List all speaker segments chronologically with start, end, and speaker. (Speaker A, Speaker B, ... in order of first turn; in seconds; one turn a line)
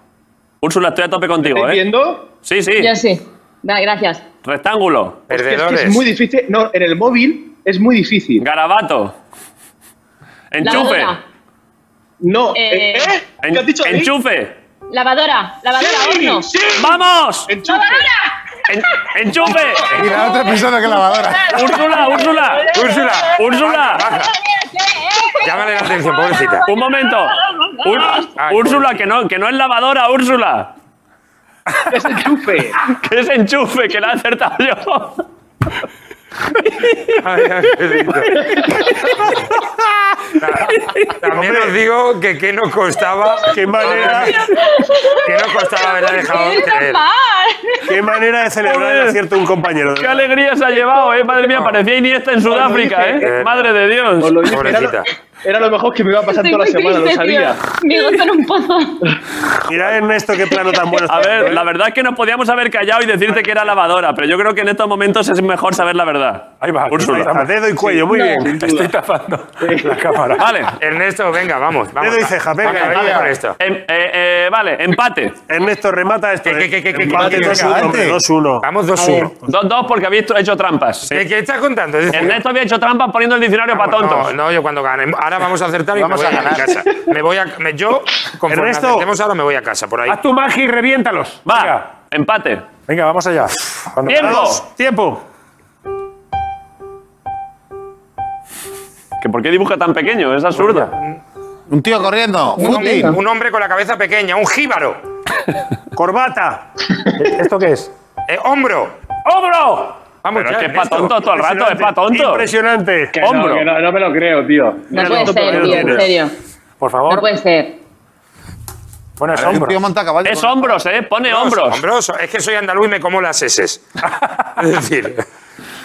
Speaker A: 0.6-1.8
Speaker B: 1.4-2.3
Speaker A: 2.5-2.9
Speaker C: 2.8-4.2
Speaker A: 4.4-5.2
Speaker D: 5.3-6.0
Speaker B: 5.3-8.4
Speaker A: 8.4-9.1
Speaker A: 10.5-11.2
Speaker C: 10.6-11.2
Speaker B: 12.2-14.1
Speaker C: 12.5-13.2
Speaker A: 13.4-14.6
Speaker C: 14.9-16.5
Speaker B: 15.8-18.1
Speaker A: 16.8-17.5
Speaker C: 17.6-28.3
Speaker A: 18.7-20.0
Speaker E: 19.9-21.9
Speaker A: 21.5-22.7
Speaker D: 22.7-24.3
Speaker A: 23.3-24.1
Speaker D: 25.4-26.7
Speaker A: 26.7-30.7
Speaker D: 28.4-28.9
Speaker B: 31.9-32.8
Speaker A: 32.9-35.2
Speaker A: 36.6-37.2
Speaker D: 37.2-38.5
Speaker A: 37.9-38.3
Speaker D: 40.4-44.5
Speaker F: 41.3-41.8
Speaker F: 43.5-44.4
Speaker C: 43.7-48.0
Speaker D: 45.2-47.0
Speaker F: 47.9-50.3
Speaker A: 48.7-49.2
Speaker A: 50.0-54.8
Speaker B: 52.5-53.3
Speaker D: 53.2-53.7
Speaker B: 54.2-57.6
Speaker D: 54.5-55.1
Speaker C: 56.3-59.0
Speaker F: 59.7-61.6
Speaker A: 61.1-67.3
Speaker G: 66.6-67.5
Speaker F: 67.0-68.6
Speaker B: 67.8-68.9
Speaker G: 68.5-70.5
Speaker B: 69.6-70.0
Speaker A: 70.4-70.8
Speaker D: 70.8-73.6
Speaker F: 72.0-73.2
Speaker E: 72.8-73.3
Speaker A: 73.2-75.4
Speaker F: 75.5-78.7
Speaker D: 76.5-77.8
Speaker B: 77.1-77.5
Speaker E: 77.5-78.2
Speaker D: 78.6-79.3
Speaker C: 79.0-79.3
Speaker A: 79.5-81.2
Speaker D: 81.1-82.4
Speaker A: 82.1-84.3
Speaker D: 83.7-90.2
Speaker E: 86.0-86.8
Speaker F: 88.5-89.1
Speaker G: 90.1-91.8
Speaker A: 91.5-92.7
Speaker G: 92.9-94.5
Speaker A: 94.1-94.6
Speaker F: 94.2-95.2
Speaker A: 99.2-100.9
Speaker D: 100.6-101.2
Speaker E: 101.7-103.2
Speaker D: 102.6-105.0
Speaker C: 102.6-103.2
Speaker F: 106.0-106.7
Speaker G: 107.2-107.9
Speaker D: 108.3-109.0
Speaker G: 109.2-110.0
Speaker D: 110.2-111.1
Speaker A: 110.3-112.5
Speaker F: 111.2-113.2
Speaker B: 113.1-116.1
Speaker A: 113.2-113.7
Speaker C: 114.9-116.3
Speaker F: 114.9-116.1
Speaker G: 116.8-117.3
Speaker C: 117.1-117.8
Speaker G: 119.2-119.8
Speaker E: 119.3-120.8
Speaker A: 120.2-121.8
Speaker D: 121.3-123.8
Speaker D: 124.6-125.3